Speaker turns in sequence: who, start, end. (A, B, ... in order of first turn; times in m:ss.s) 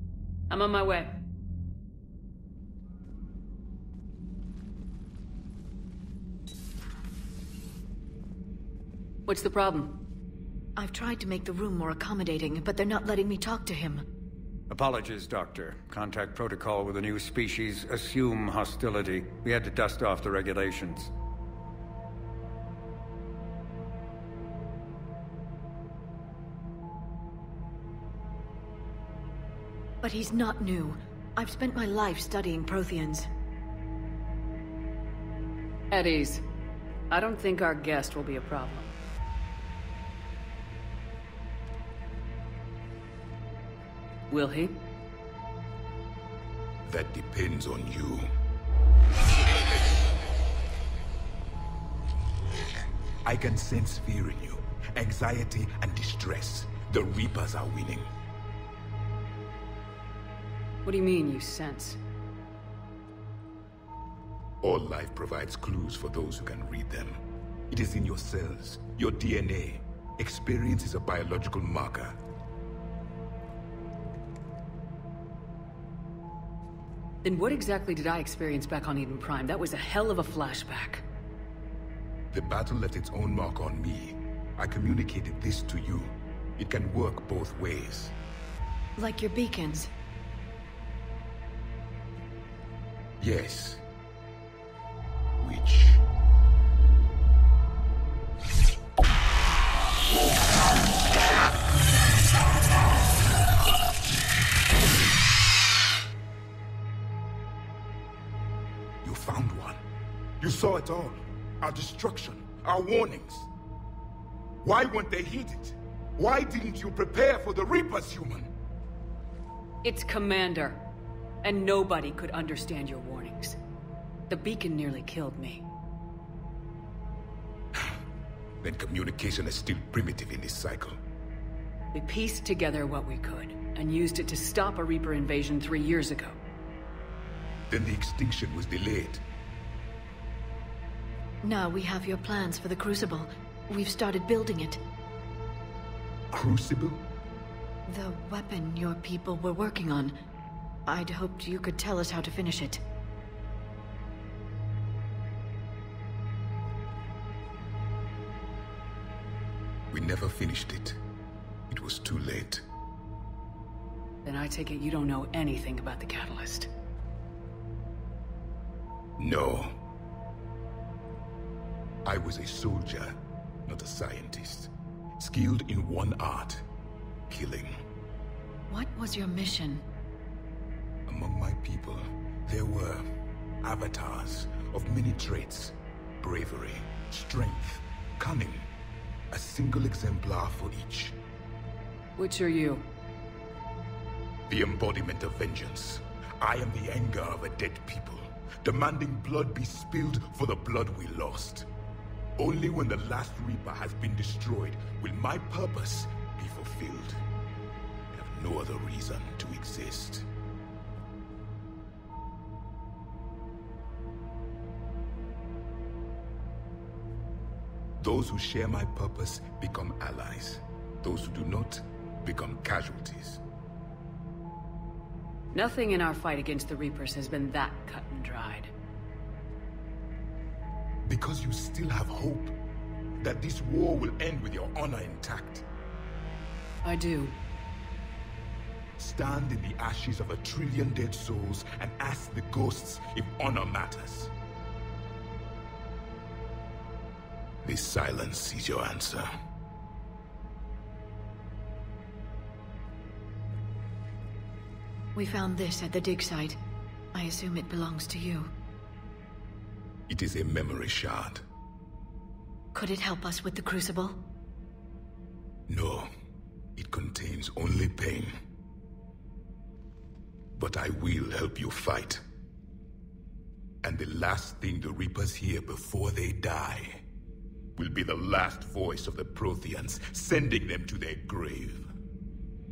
0:00.5-0:01.2 A
0:09.2-0:10.0 A
0:10.8-0:14.0 B
0:14.7-0:21.1 C
0:30.0-0:33.3 B
0:35.9-0:36.4 A
0:37.1-0:38.9 A
0:44.3-0:44.8 A
0:46.8-0:48.3 D
0:53.2-0:58.1 D
1:00.8-1:02.0 A
1:04.6-1:12.2 D
1:17.2-1:21.0 A
1:22.3-1:28.1 D
1:29.0-1:29.9 B
1:33.2-1:33.8 D
1:35.4-1:36.0 D
1:49.0-1:49.8 D
1:50.4-1:53.5 D
1:54.6-1:58.5 D
1:59.8-2:00.8 A
2:01.4-2:03.6 A
2:04.3-2:05.6 A
2:08.6-2:11.0 D
2:11.9-2:16.4 A
2:17.7-2:19.2 D
2:21.4-2:24.8 B
2:26.3-2:27.0 D
2:27.8-2:30.1 B
2:30.8-2:32.8 B
2:39.9-2:41.0 D
2:41.7-2:42.6 D
2:44.2-2:46.7 A
2:49.2-2:49.7 D
2:52.0-2:56.6 D
2:57.3-2:57.8 D
2:58.7-2:59.8 B
3:01.1-3:03.0 D
3:03.6-3:08.7 D
3:09.3-3:11.2 D
3:12.2-3:12.8 A
3:14.5-3:21.7 D
3:22.4-3:27.2 D
3:28.1-3:30.3 D
3:38.0-3:43.4 D
3:45.5-3:48.7 A
3:51.0-3:52.5 D
3:53.2-3:55.6 D
3:56.8-3:57.4 A
3:59.0-4:04.3 D
4:07.6-4:09.3 D
4:15.1-4:16.6 B
4:17.1-4:18.5 B
4:20.1-4:21.4 D
4:22.7-4:24.2 B
4:25.7-4:26.1 D
4:26.8-4:28.3 D
4:30.6-4:32.2 D
4:33.8-4:37.0 D
4:37.8-4:41.9 D